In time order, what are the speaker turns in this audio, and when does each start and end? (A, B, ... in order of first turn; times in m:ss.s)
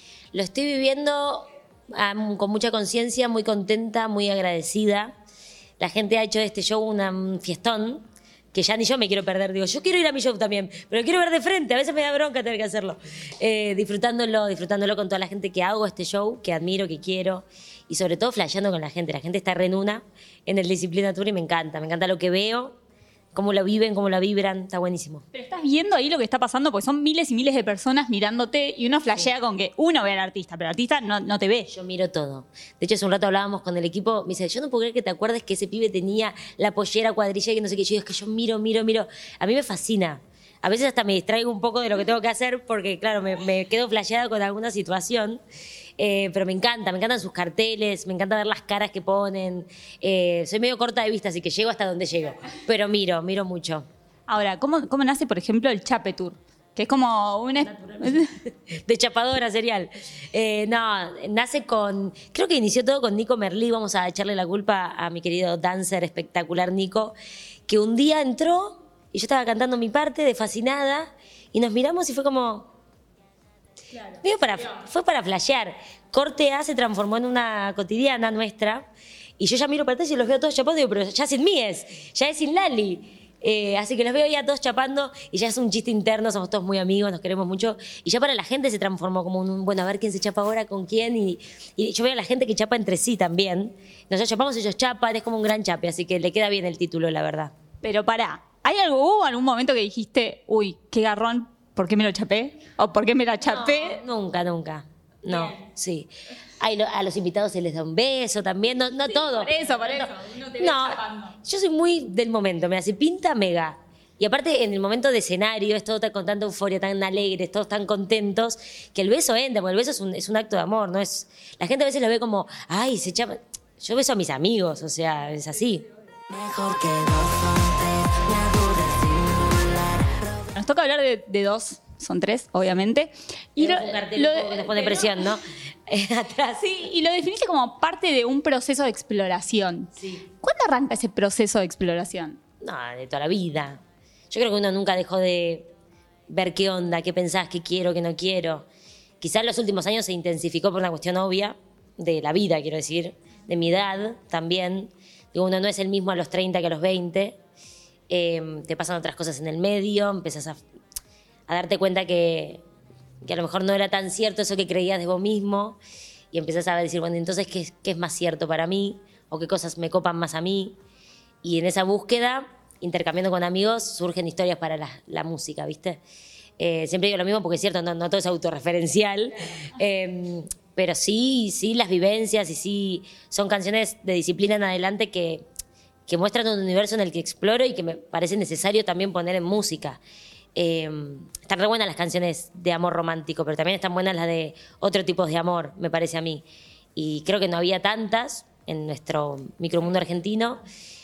0:00.3-0:05.1 A
0:05.8-0:22.7 A
0:23.3-0:25.2 A
0:25.3-0:31.7 B
0:31.7-0:45.4 A
0:46.0-0:53.8 A
0:54.3-0:58.3 B
0:57.6-1:07.2 A
1:07.7-1:12.7 A
1:14.1-1:18.8 A
1:19.4-1:37.5 A
1:37.8-1:44.0 B
1:43.4-2:05.8 A
1:49.1-1:51.3 B
2:06.3-2:10.5 C
2:10.6-2:15.3 B
2:13.6-2:16.7 A
2:16.6-2:22.4 B
2:20.0-2:20.2 A
2:22.6-2:23.8 A
2:24.3-2:25.7 A
2:26.3-2:28.7 A
2:29.2-2:37.4 A
2:38.1-2:40.6 A
2:41.5-2:42.6 A
2:43.2-2:45.8 A
2:46.3-2:50.8 A
2:51.4-2:56.0 A
2:56.6-3:05.4 A
3:06.1-3:10.0 A
3:10.6-3:20.6 A